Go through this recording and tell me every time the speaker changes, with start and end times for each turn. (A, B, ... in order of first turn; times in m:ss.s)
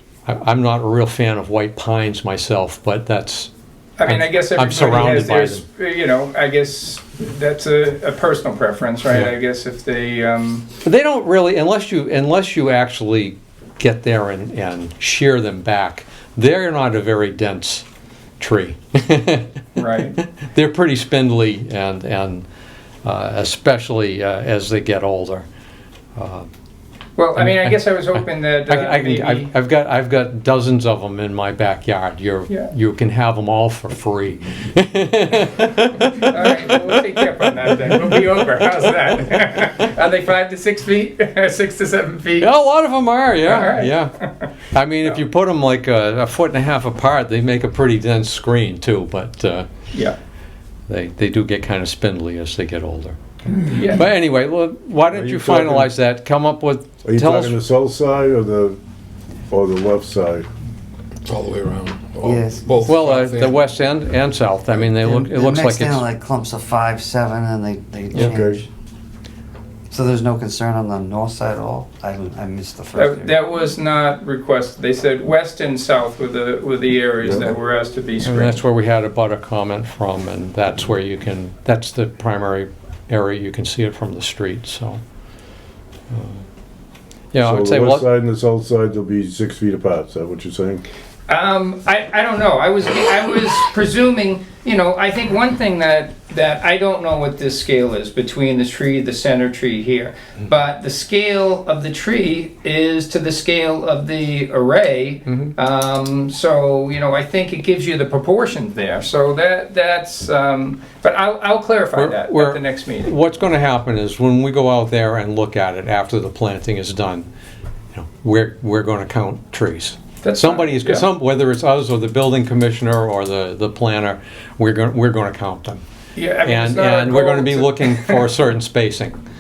0:00.3-0:03.5 A
0:04.0-0:10.7 B
0:04.1-0:05.6 A
0:10.8-0:17.9 A
0:18.4-0:19.5 A
0:19.8-0:20.2 B
0:20.4-0:22.5 A
0:23.0-0:25.5 A
0:26.2-0:26.5 A
0:27.2-0:29.5 B
0:27.4-0:27.7 A
0:28.7-0:36.9 A
0:36.0-0:42.5 B
0:42.4-0:44.2 A
0:43.4-0:44.5 B
0:44.7-0:49.7 A
0:50.9-0:53.2 A
0:53.7-0:57.6 A
0:53.7-0:54.1 B
0:55.1-0:55.9 C
0:57.0-0:58.8 C
0:59.5-1:00.5 C
1:01.2-1:03.6 D
1:02.2-1:03.4 E
1:02.9-1:06.1 A
1:04.8-1:08.7 E
1:08.2-1:08.6 C
1:09.9-1:13.4 E
1:13.0-1:18.6 B
1:17.2-1:17.5 C
1:18.2-1:25.0 A
1:26.1-1:26.4 A
1:27.3-1:28.1 A
1:27.4-1:30.9 C
1:31.3-1:53.2 B
1:45.3-1:45.5 A
1:52.0-1:57.3 A
1:57.9-2:05.8 A
2:00.2-2:01.1 B
2:06.2-2:08.3 B
2:06.4-2:09.2 A